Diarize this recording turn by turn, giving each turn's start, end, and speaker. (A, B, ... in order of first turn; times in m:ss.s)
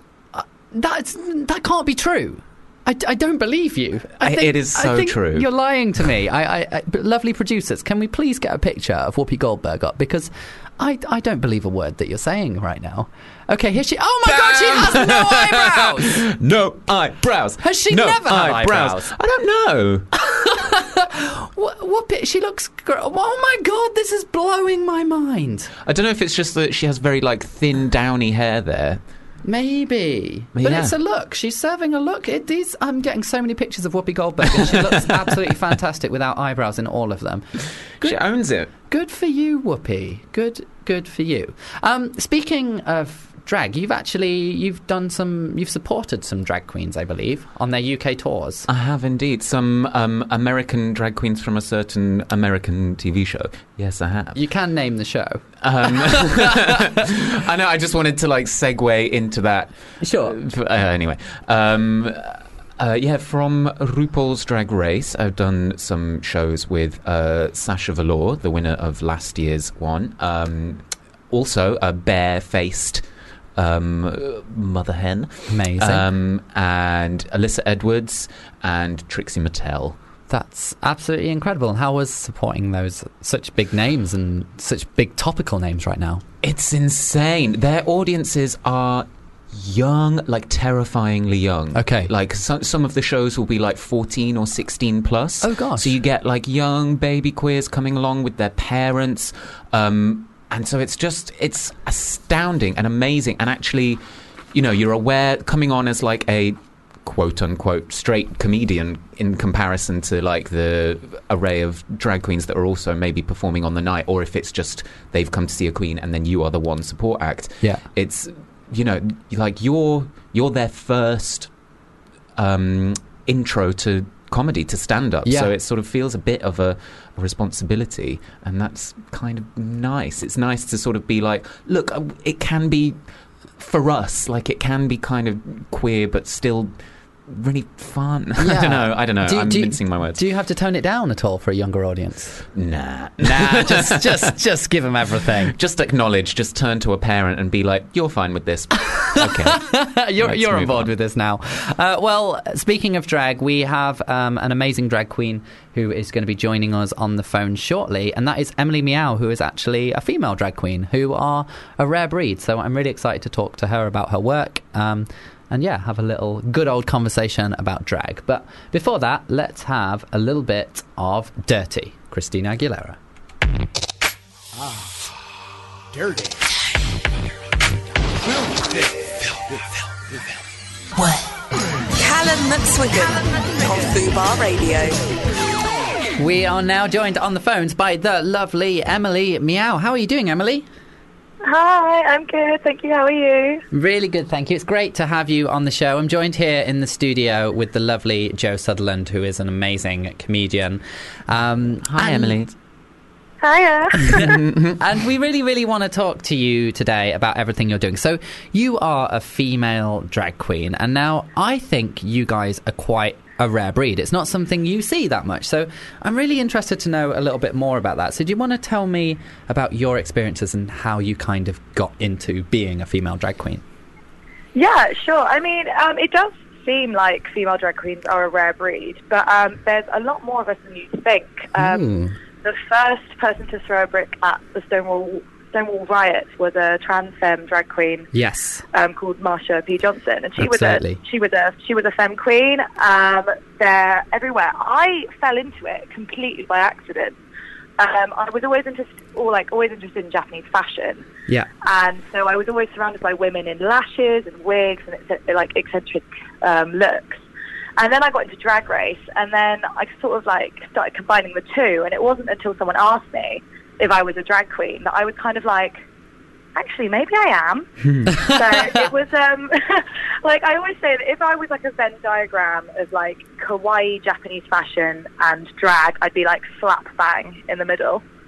0:00.3-0:16.2 A
0:04.2-0:05.5 B
0:14.2-0:20.1 B
0:17.6-0:19.1 A
0:20.2-0:25.7 A
0:25.8-0:29.0 B
0:29.4-0:48.7 A
0:30.6-0:31.0 B
0:34.6-0:35.1 B
0:38.0-0:38.7 B
0:48.7-0:54.4 B
0:54.4-0:56.5 A
0:55.6-1:13.0 B
1:00.0-1:00.4 A
1:13.6-1:20.0 B
1:15.5-1:16.1 A
1:20.3-1:26.2 A
1:26.4-1:44.0 B
1:31.7-1:32.1 A
1:35.4-1:35.9 A
1:44.5-2:01.5 B
2:02.4-2:13.0 B
2:05.3-2:05.5 A
2:13.6-2:16.7 B
2:17.3-2:20.2 B
2:18.4-2:22.4 A
2:22.6-2:24.3 B
2:23.2-2:25.5 A
2:25.5-2:30.9 B
2:29.2-2:53.0 A
3:02.0-3:05.0 C
3:06.2-3:10.7 A
3:11.4-3:13.6 D
3:13.7-3:22.4 A
3:21.8-3:22.5 B
3:23.4-3:24.4 D
3:24.2-3:24.8 B
3:24.8-3:43.6 A
3:44.6-3:51.9 D
3:51.6-3:52.1 A
3:52.4-3:58.1 D
3:58.1-3:58.6 A
3:58.7-4:07.2 D
4:00.4-4:01.0 A
4:07.8-4:11.1 D
4:11.7-4:17.2 D
4:17.8-4:25.8 D
4:26.6-4:38.0 D
4:27.9-4:28.1 B
4:28.1-4:28.8 A